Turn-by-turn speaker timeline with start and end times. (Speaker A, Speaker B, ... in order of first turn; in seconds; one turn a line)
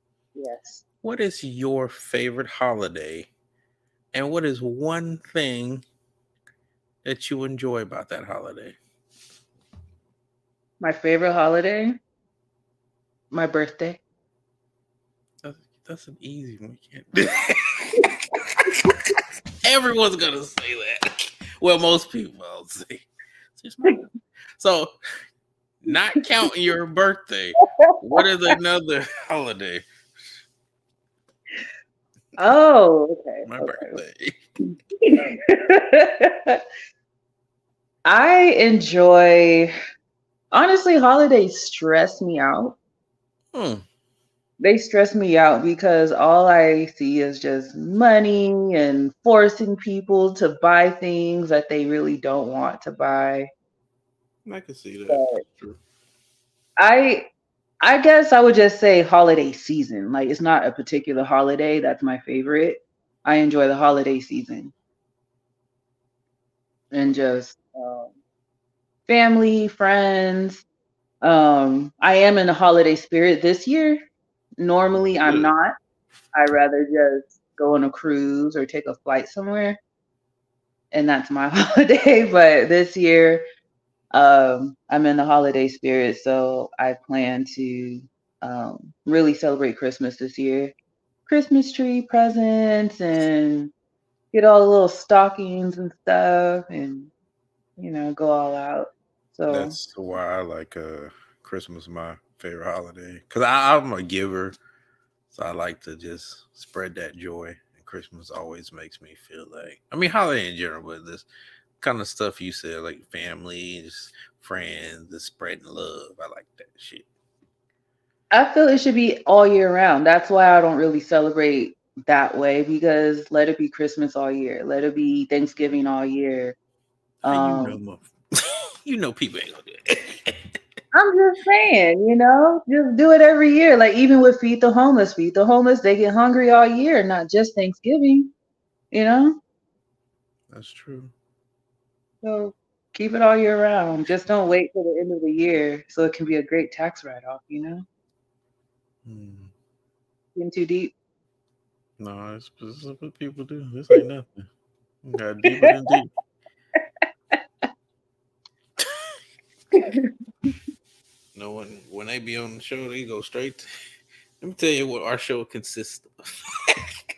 Speaker A: 0.3-0.8
Speaker B: 1.0-3.3
Speaker B: 4.1-5.8
Speaker B: 7.0-8.8
Speaker A: 10.8-12.0
Speaker A: 13.3-14.0
Speaker B: 15.4-18.0
Speaker B: 19.6-24.1
Speaker B: 24.6-24.9
Speaker B: 25.8-29.9
Speaker A: 27.9-28.2
Speaker A: 32.4-34.0
Speaker B: 33.5-34.4
Speaker A: 35.0-36.6
Speaker A: 38.0-39.7
Speaker A: 40.5-42.8
Speaker B: 43.5-43.8
Speaker A: 44.6-53.5
Speaker B: 54.5-55.8
Speaker A: 55.1-55.4
Speaker A: 56.8-57.3
Speaker A: 57.8-64.7
Speaker A: 66.9-68.1
Speaker A: 69.1-70.6
Speaker A: 71.2-74.1
Speaker A: 74.6-75.8
Speaker B: 75.2-75.5
Speaker A: 76.3-79.8
Speaker A: 80.9-83.4
Speaker A: 84.1-90.7
Speaker A: 91.3-93.7
Speaker A: 94.3-97.1
Speaker A: 97.8-99.8
Speaker B: 99.5-104.6
Speaker B: 105.3-111.3
Speaker B: 111.8-117.1
Speaker A: 118.3-126.6
Speaker A: 127.2-127.8
Speaker B: 127.2-130.4
Speaker A: 130.9-138.3
Speaker A: 138.9-139.4
Speaker B: 140.5-141.1
Speaker A: 142.2-147.9
Speaker B: 149.1-149.5
Speaker A: 150.3-150.9
Speaker B: 152.0-154.4
Speaker B: 155.0-156.1
Speaker A: 155.4-155.8
Speaker B: 158.8-159.1
Speaker A: 159.7-160.5
Speaker B: 161.3-163.7
Speaker B: 164.4-166.9